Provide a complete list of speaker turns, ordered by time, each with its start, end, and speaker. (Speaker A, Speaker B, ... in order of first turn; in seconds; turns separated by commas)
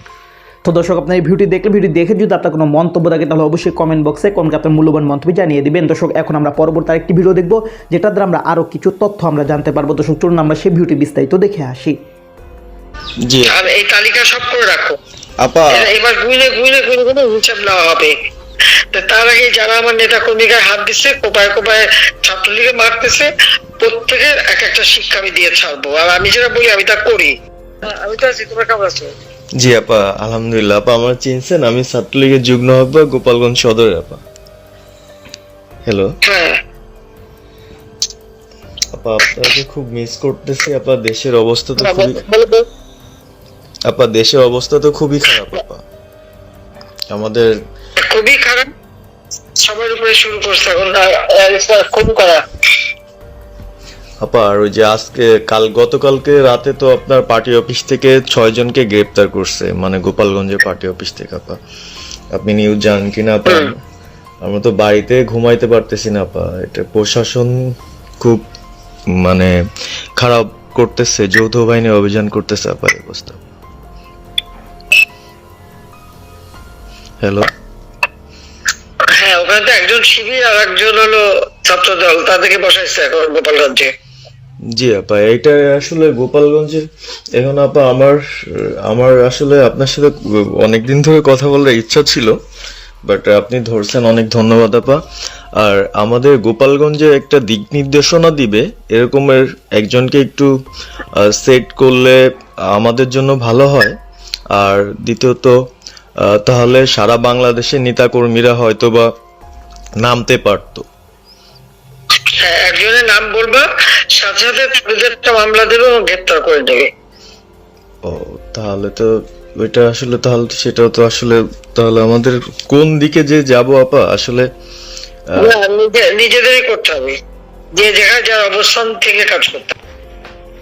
Speaker A: 0.7-11.9, Speaker B: 13.2-13.6, Speaker C: 13.5-15.0, Speaker B: 15.4-15.9, Speaker C: 15.7-18.1, Speaker C: 18.9-29.1, Speaker B: 29.6-34.2, Speaker B: 35.9-36.1, Speaker C: 36.2-36.6, Speaker B: 38.9-42.2, Speaker C: 41.8-42.6, Speaker B: 43.9-45.8, Speaker B: 47.1-47.5, Speaker C: 48.0-48.7, Speaker C: 49.6-52.4, Speaker B: 54.2-61.6, Speaker B: 62.3-63.8, Speaker B: 64.4-67.5, Speaker B: 69.2-69.5, Speaker B: 70.2-73.4, Speaker B: 77.2-77.5, Speaker C: 79.1-83.9, Speaker B: 84.7-86.8, Speaker B: 87.4-92.3, Speaker B: 93.1-95.0, Speaker B: 95.6-100.5, Speaker B: 101.2-102.2, Speaker B: 102.7-104.0, Speaker B: 104.5-105.5, Speaker B: 106.2-109.1, Speaker B: 110.0-110.8, Speaker C: 112.3-116.9, Speaker B: 118.0-124.5, Speaker B: 125.3-125.6, Speaker C: 125.4-127.2, Speaker C: 127.7-129.7